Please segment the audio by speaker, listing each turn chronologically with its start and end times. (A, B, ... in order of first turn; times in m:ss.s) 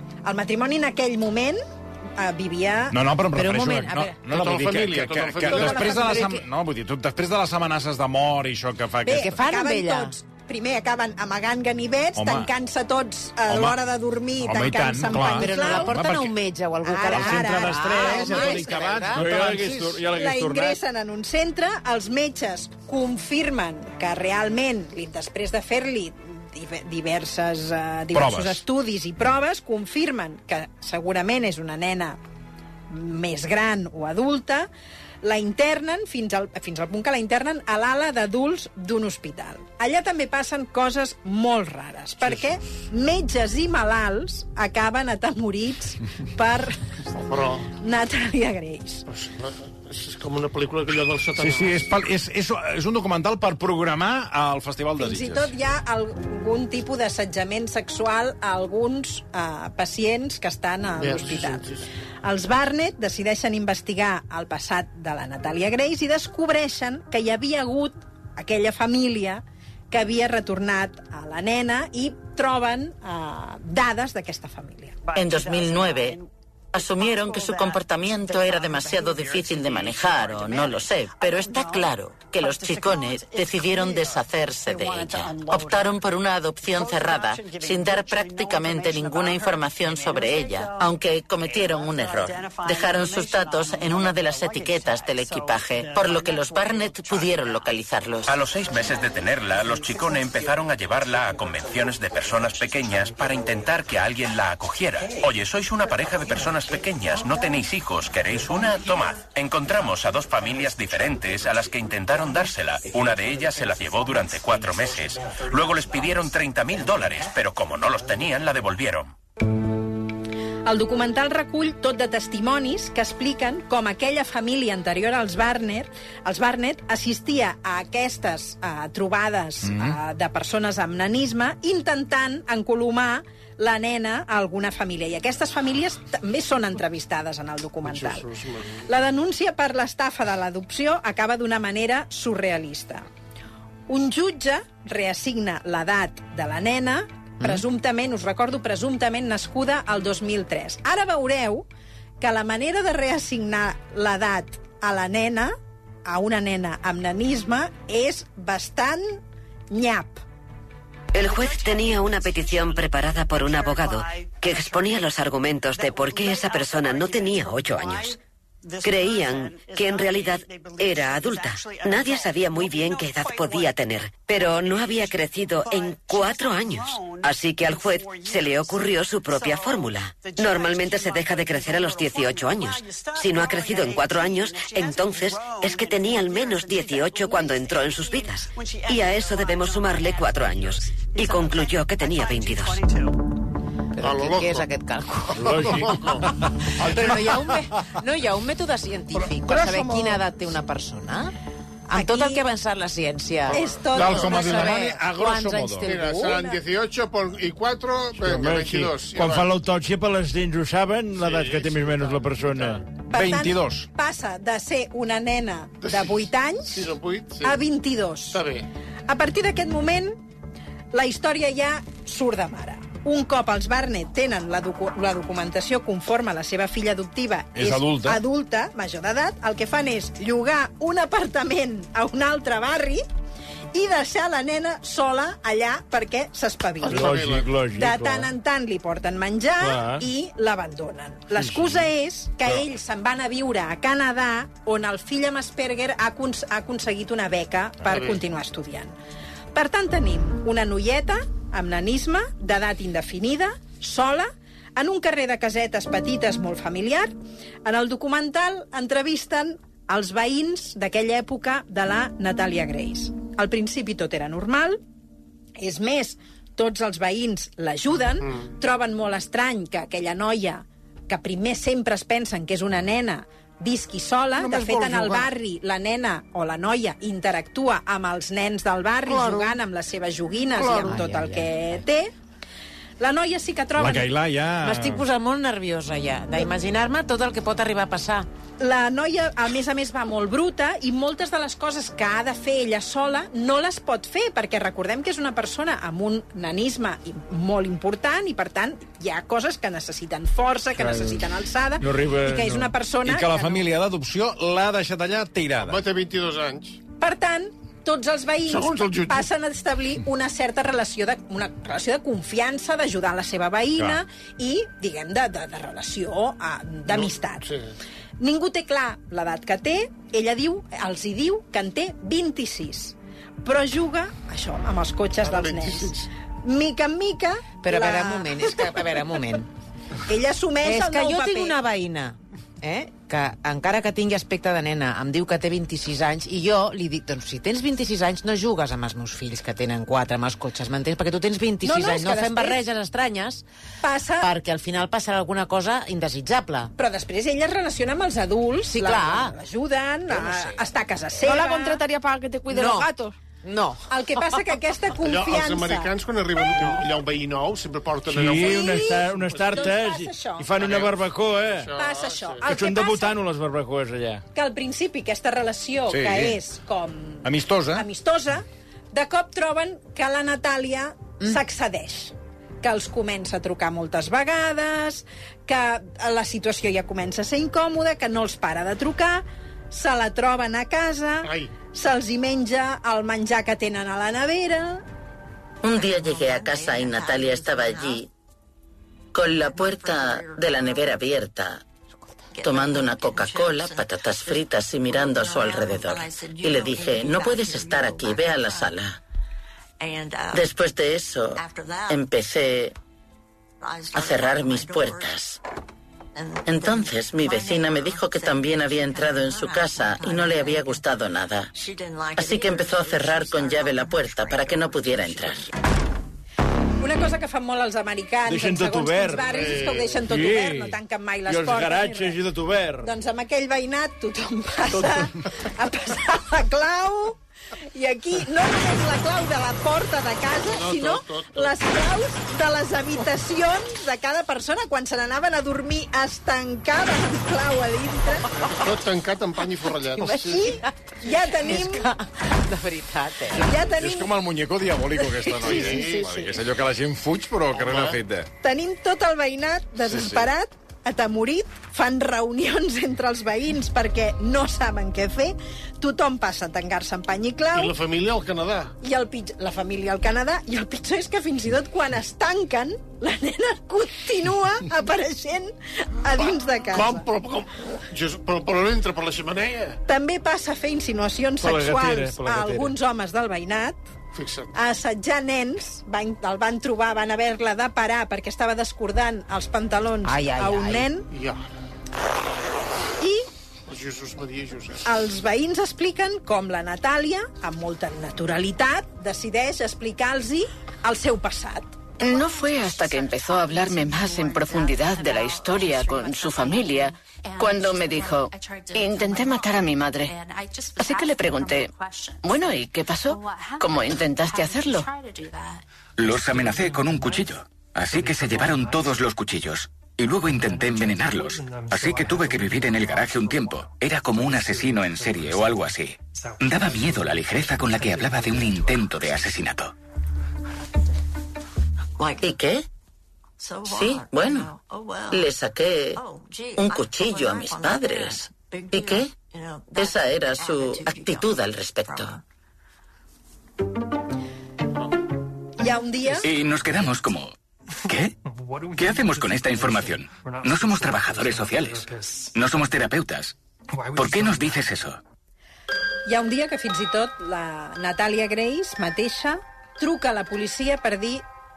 0:00.2-0:01.6 A
0:02.2-0:03.0 A
0:02.9-0:09.4 B
0:03.3-0:04.2 C
0:04.3-0:06.0 D
0:05.5-0:06.4 A
0:06.0-0:06.4 C
0:09.0-0:16.0 A
0:09.1-0:10.1 C
0:12.2-0:12.5 B
0:13.5-0:13.8 B
0:14.4-0:16.3 B
0:15.1-0:19.2 C
0:16.8-0:18.8 A
0:17.1-0:20.0 B
0:19.2-0:20.8 E
0:20.1-0:32.2 A
0:28.1-0:28.6 B
0:32.9-0:34.7 A
0:35.2-0:46.8 A
0:47.1-0:47.7 D
0:47.8-0:49.0 A
0:49.1-0:51.9 D
0:51.4-0:55.5 B
0:55.0-1:01.6 A
1:01.0-1:01.8 D
1:02.2-1:15.0 A
1:15.1-1:16.2 F
1:16.7-1:38.4 F
1:38.3-1:59.1 G
2:00.6-2:18.3 A
2:09.6-2:10.0 B
2:17.8-2:18.8 D
2:18.9-2:23.0 A
2:23.9-2:31.6 A
2:32.2-2:35.5 A
2:36.0-2:40.2 A
2:41.1-2:48.2 H
2:48.8-3:12.8 H
3:13.9-3:16.2 C
3:14.0-3:14.7 D
3:15.4-3:16.2 E
3:15.4-3:16.3 D
3:16.8-3:21.3 C
3:19.4-3:20.2 A
3:21.9-3:22.4 A
3:21.9-3:23.6 C
3:23.5-3:25.0 A
3:23.6-3:24.4 D
3:23.9-3:25.9 B
3:24.2-3:26.5 C
3:25.8-3:29.5 D
3:26.1-3:26.6 A
3:28.2-3:32.8 E
3:31.2-3:32.8 D
3:33.1-3:36.9 A
3:33.1-3:33.9 B
3:35.8-3:37.6 D
3:37.4-3:38.4 A
3:38.3-3:38.6 D
3:39.1-3:40.2 A
3:40.9-3:53.0 A
3:47.5-3:48.2 B
3:53.7-4:08.9 A
3:56.8-3:57.5 D
3:56.9-3:58.3 E
3:59.6-4:00.0 E
4:01.4-4:01.8 E
4:07.9-4:08.2 D
4:09.5-4:17.1 A
4:17.6-4:24.8 A
4:25.6-4:42.1 A
4:34.4-4:35.2 I
4:39.1-4:39.6 I
4:40.6-4:41.0 I
4:40.7-4:41.5 C
4:43.0-4:44.1 A
4:43.8-4:45.0 B
4:44.6-4:48.3 C
4:48.6-5:03.6 A
5:00.8-5:01.2 E
5:01.8-5:02.7 E
5:03.0-5:05.8 B
5:05.6-5:06.8 D
5:07.0-5:17.5 A
5:08.4-5:09.3 D
5:13.8-5:14.0 B
5:16.9-5:17.7 D
5:18.2-5:29.2 A
5:25.2-5:26.1 D
5:27.6-5:29.5 C
5:30.0-5:31.6 A
5:30.6-5:43.4 C
5:41.6-5:42.6 A
5:43.8-5:44.3 A
5:44.2-5:46.7 C
5:46.8-5:51.8 A
5:48.7-5:49.3 C
5:51.2-5:53.1 I
5:52.5-5:52.9 C
5:53.4-5:53.8 C
5:53.9-5:56.8 A
5:55.0-5:59.6 D
5:58.1-6:01.7 E
5:58.2-6:00.7 A
6:00.6-6:01.0 D
6:01.5-6:02.4 D
6:01.7-6:03.2 A
6:02.4-6:04.2 E
6:04.3-6:24.8 A
6:05.9-6:06.4 B
6:07.2-6:07.8 B
6:21.2-6:21.5 D
6:25.6-6:28.1 F
6:29.1-6:31.6 F
6:32.4-6:39.0 F
6:40.3-6:42.7 F
6:43.9-6:45.4 F
6:46.4-6:51.5 F
6:52.1-6:55.5 F
6:56.8-7:02.2 A
6:58.2-6:59.5 E
6:59.2-7:00.0 D
7:00.1-7:02.9 E
7:02.8-7:07.2 A
7:04.7-7:05.1 E
7:07.7-7:18.3 A
7:10.5-7:11.7 D
7:18.4-7:20.4 D
7:20.0-7:23.5 C
7:20.0-7:21.9 A
7:23.3-7:24.1 A
7:23.8-7:28.3 B
7:25.0-7:26.3 A
7:25.4-7:26.2 D
7:27.5-7:28.0 D
7:28.4-7:37.8 A
7:29.8-7:30.3 B
7:37.5-7:38.7 D
7:38.8-7:47.0 A
7:46.2-7:49.8 D
7:49.9-7:53.8 A
7:51.4-7:52.7 E
7:54.1-7:54.5 D
7:54.5-8:01.1 A
8:00.0-8:00.9 C
8:01.1-8:01.5 D
8:03.0-8:03.3 A
8:03.7-8:04.8 D
8:04.8-8:11.7 A
8:12.0-8:20.1 J
8:20.8-8:21.7 J
8:22.2-8:24.9 J
8:26.0-8:39.7 K
8:42.2-8:42.6 F
8:43.6-8:44.5 F
8:45.1-8:46.0 F
8:46.6-8:49.1 F
8:49.7-8:52.2 F
8:55.6-8:56.3 A
8:56.2-8:57.3 K
8:57.8-8:58.2 K
8:58.7-9:03.3 K
9:03.9-9:05.0 K
9:06.1-9:11.2 A